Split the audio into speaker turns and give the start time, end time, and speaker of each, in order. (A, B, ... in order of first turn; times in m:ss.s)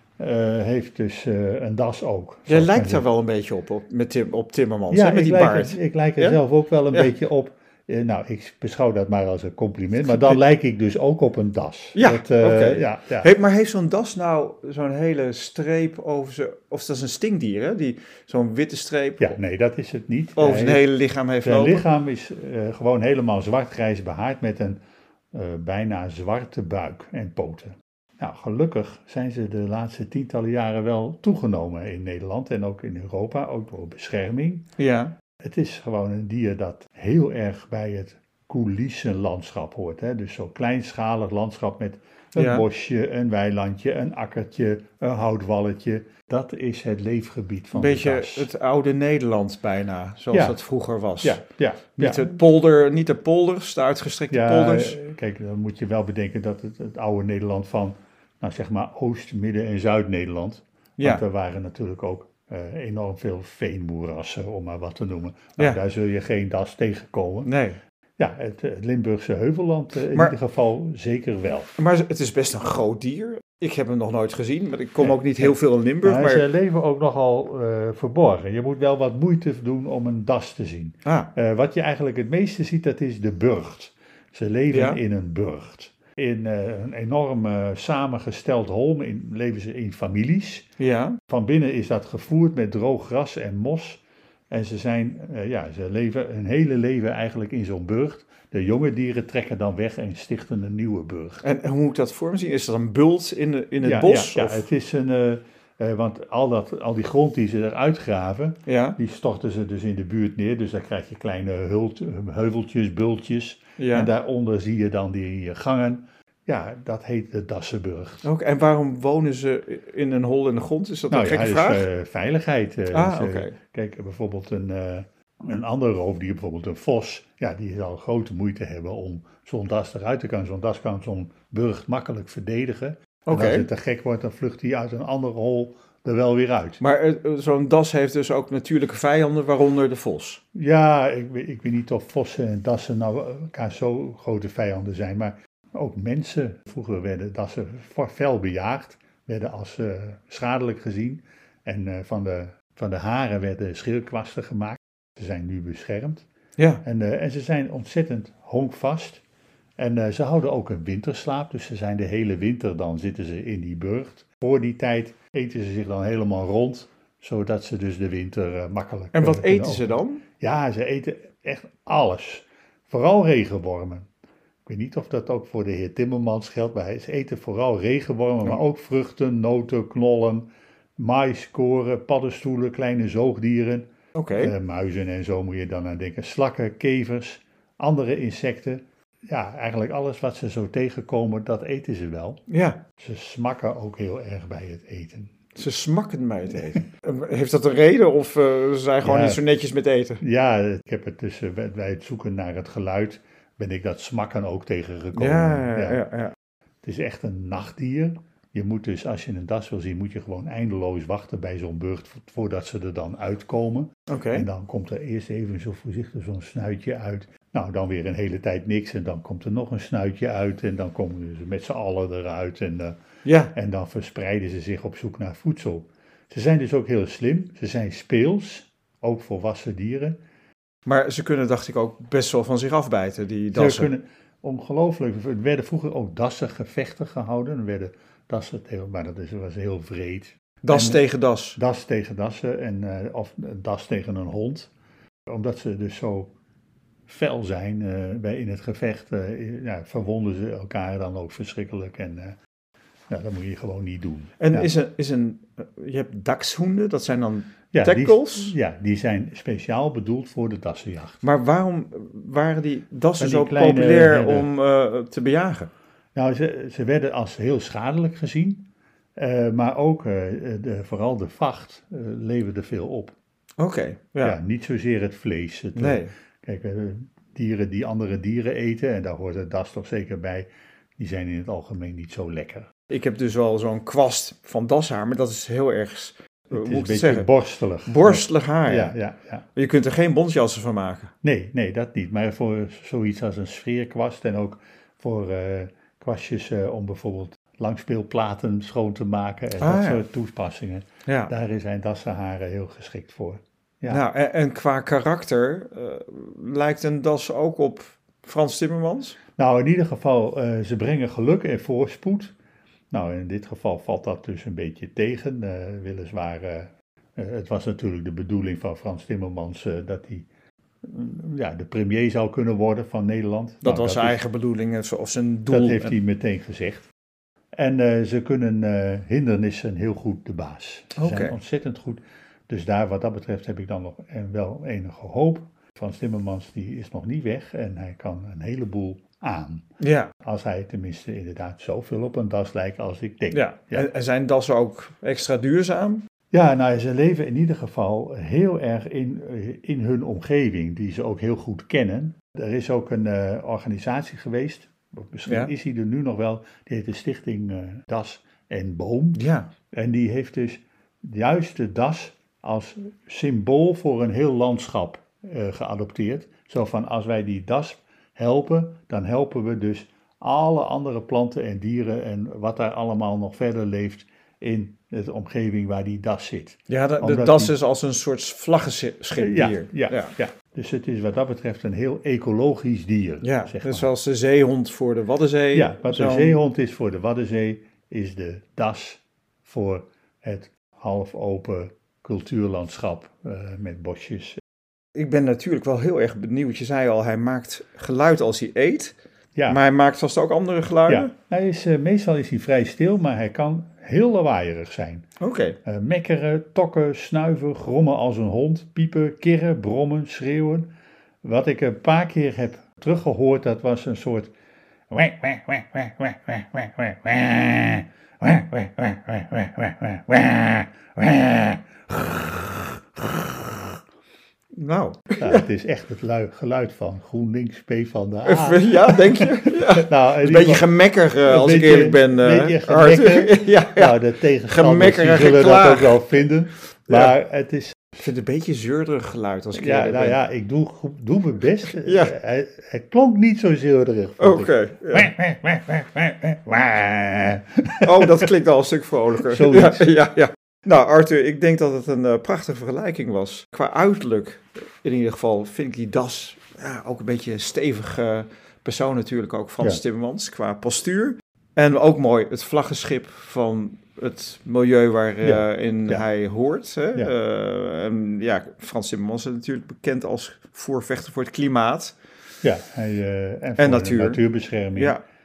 0:00.2-0:03.0 A
0:02.5-0:06.4 B
0:04.9-0:13.3 A
0:10.0-0:10.4 B
0:11.9-0:19.4 B
0:19.2-0:20.9 A
0:20.4-0:21.8 B
0:21.4-0:24.8 A
0:25.3-0:34.6 A
0:34.8-0:35.1 B
0:35.4-0:48.5 A
0:42.4-0:42.6 B
0:47.7-0:51.4 B
0:50.3-0:50.6 A
0:51.2-0:52.3 A
0:52.0-0:55.0 B
0:54.3-1:07.5 A
1:01.0-1:01.2 B
1:07.4-1:07.8 B
1:08.2-1:11.7 A
1:10.1-1:10.3 B
1:11.8-1:16.4 B
1:15.0-1:30.7 A
1:21.0-1:21.3 B
1:24.7-1:25.0 B
1:30.8-1:31.2 B
1:31.3-1:41.4 A
1:41.4-1:44.6 B
1:43.8-1:58.2 A
1:48.6-1:49.0 B
1:53.8-1:54.1 B
1:58.2-2:01.9 B
2:01.1-2:16.8 A
2:02.9-2:03.5 B
2:13.2-2:13.7 B
2:16.8-2:20.4 B
2:20.5-2:36.2 A
2:36.6-2:36.8 B
2:36.8-2:39.2 A
2:39.8-2:54.1 A
2:49.1-2:50.2 B
2:54.6-3:12.4 A
3:04.1-3:04.5 B
3:12.5-3:12.8 B
3:13.0-3:15.3 A
3:15.5-3:20.2 B
3:19.0-3:19.4 A
3:20.2-3:26.0 A
3:25.1-3:26.3 B
3:26.8-3:43.0 A
3:34.1-3:34.5 B
3:43.2-3:43.5 B
3:43.5-3:50.2 A
3:50.8-3:53.9 B
3:53.5-4:04.7 A
4:00.6-4:01.6 B
4:05.3-4:06.3 A
4:07.1-4:12.4 A
4:13.1-4:14.7 A
4:14.4-4:18.5 B
4:17.7-4:21.2 A
4:21.2-4:25.7 B
4:23.2-4:24.5 A
4:26.1-4:33.1 A
4:33.6-4:34.4 B
4:34.2-4:40.5 A
4:35.8-4:36.1 B
4:41.0-4:42.7 A
4:42.9-4:47.3 B
4:46.5-4:49.4 A
4:47.8-4:49.0 B
4:49.5-4:51.1 B
4:51.2-5:04.0 A
4:59.6-5:00.0 B
5:01.0-5:01.3 B
5:03.9-5:09.2 B
5:09.4-5:12.3 A
5:12.9-5:20.3 A
5:20.8-5:24.2 A
5:23.6-5:26.0 B
5:25.5-5:26.9 A
5:27.5-5:39.6 A
5:31.0-5:31.4 B
5:39.8-5:40.1 B
5:40.2-5:43.9 A
5:43.3-5:46.0 B
5:46.3-6:17.5 A
5:55.3-5:55.5 B
5:59.1-5:59.5 B
6:16.7-6:20.1 B
6:19.2-6:23.9 A
6:23.2-6:26.4 B
6:25.5-6:34.4 A
6:34.9-6:38.9 B
6:39.3-6:39.6 A
6:39.5-6:41.1 B
6:40.9-6:45.0 A
6:45.2-6:45.6 B
6:45.6-6:50.7 A
6:51.2-6:54.3 A
6:54.9-7:03.7 A
7:04.5-7:05.4 B
7:05.2-7:10.7 A
7:08.2-7:14.0 B
7:11.2-7:17.8 A
7:14.5-7:16.1 B
7:16.9-7:17.1 B
7:18.0-7:20.2 B
7:19.5-7:28.3 A
7:21.7-7:22.2 B
7:24.2-7:25.1 B
7:27.8-7:51.9 B
7:29.2-7:29.9 A
7:45.2-7:46.0 A
7:52.4-7:55.0 A
7:53.6-7:54.2 B
7:54.7-7:55.0 B